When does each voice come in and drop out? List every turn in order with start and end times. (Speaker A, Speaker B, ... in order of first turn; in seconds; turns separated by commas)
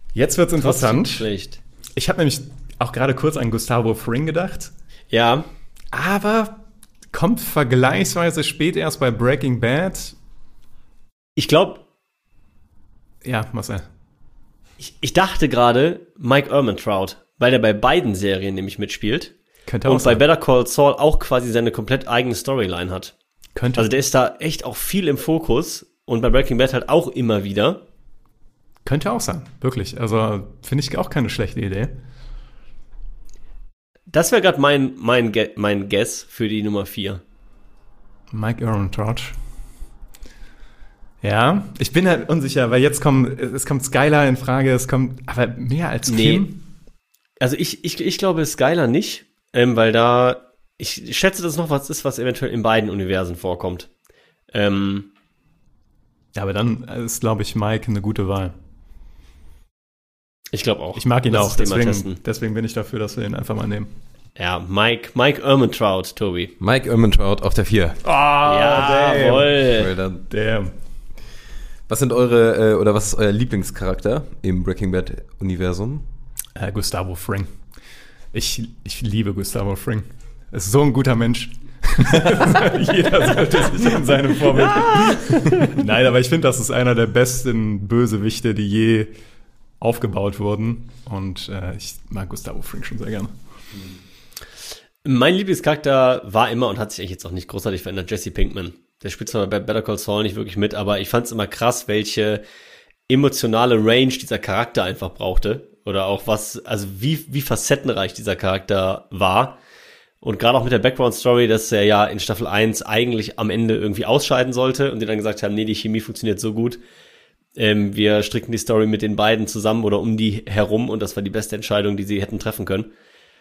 Speaker A: 0.1-1.3, Speaker B: 0.6-1.6, Speaker A: 2.0-4.7, Speaker B: 5.1-5.5, Speaker A: 5.9-6.6, Speaker A: 7.1-10.2, Speaker B: 11.4-11.8, Speaker A: 13.2-13.9, Speaker B: 14.8-19.3, Speaker A: 19.7-20.2, Speaker B: 19.9-23.1, Speaker A: 23.6-23.9, Speaker B: 23.8-27.8, Speaker A: 28.9-31.9, Speaker B: 34.1-37.2, Speaker A: 38.3-39.4, Speaker A: 41.2-46.6, Speaker B: 46.1-46.5, Speaker B: 47.4-53.9, Speaker B: 54.5-55.1, Speaker A: 56.4-58.5, Speaker B: 60.5-62.2, Speaker A: 61.0-63.9, Speaker B: 64.4-66.5, Speaker C: 66.6-68.0, Speaker A: 68.0-69.5, Speaker B: 68.4-69.9, Speaker C: 69.7-70.2, Speaker A: 70.3-70.7, Speaker C: 71.9-76.1, Speaker A: 76.6-77.5, Speaker A: 78.3-89.1, Speaker B: 84.5-85.6, Speaker A: 89.8-93.3, Speaker B: 95.0-102.4, Speaker B: 103.1-109.6, Speaker B: 110.2-116.8, Speaker B: 117.6-122.9